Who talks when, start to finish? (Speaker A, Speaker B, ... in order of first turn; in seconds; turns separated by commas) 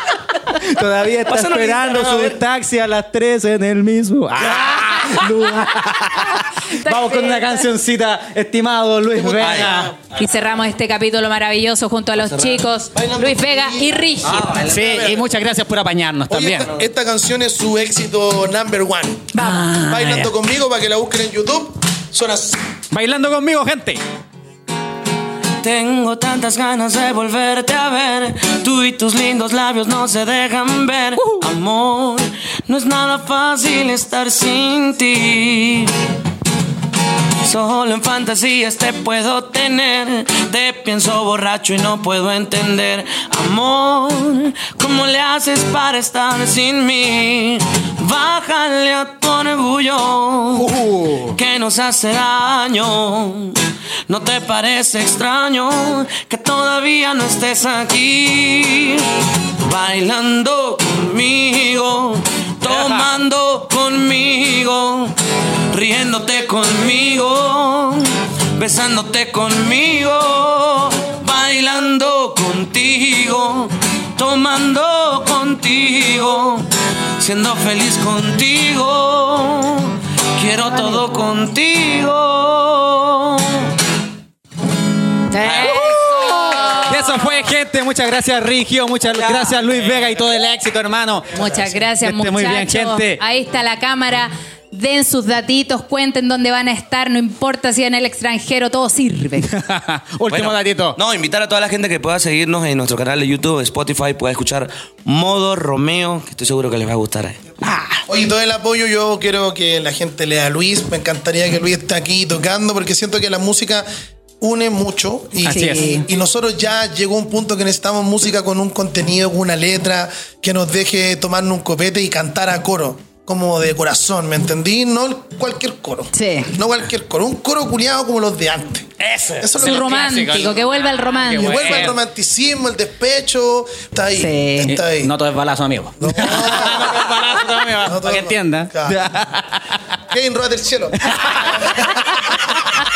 Speaker A: 0.4-9.9, Speaker B: 1.2-2.4, Speaker C: 6.1-7.7, Speaker D: 9.2-9.8, Speaker B: 9.4-9.9, Speaker C: 10.1-14.7, Speaker B: 12.2-12.6, Speaker D: 12.9-15.4, Speaker B: 14.2-14.5, Speaker A: 14.6-16.7, Speaker D: 16.3-22.6, Speaker C: 19.3-19.6, Speaker A: 19.4-20.3, Speaker A: 22.9-24.0, Speaker B: 25.6-36.0, Speaker B: 37.4-50.7, Speaker A: 50.5-51.4, Speaker B: 51.3-65.2, Speaker A: 62.7-63.0, Speaker B: 65.7-83.7, Speaker C: 80.7-81.0, Speaker C: 85.3-87.2, Speaker B: 85.4-85.9, Speaker A: 85.5-93.2, Speaker B: 89.1-89.7, Speaker C: 91.3-99.5, Speaker A: 99.5-101.0, Speaker B: 100.3-107.4, Speaker A: 107.6-108.0, Speaker D: 108.1-113.9, Speaker D: 114.4-130.1, Speaker C: 115.4-116.1, Speaker A: 115.5-116.0, Speaker C: 126.1-126.5, Speaker A: 129.0-132.0, Speaker C: 129.6-131.9, Speaker D: 131.4-135.1, Speaker C: 134.1-134.8, Speaker A: 134.6-139.8, Speaker D: 136.0-137.2, Speaker D: 137.8-139.0, Speaker D: 140.1-141.8, Speaker A: 141.1-142.6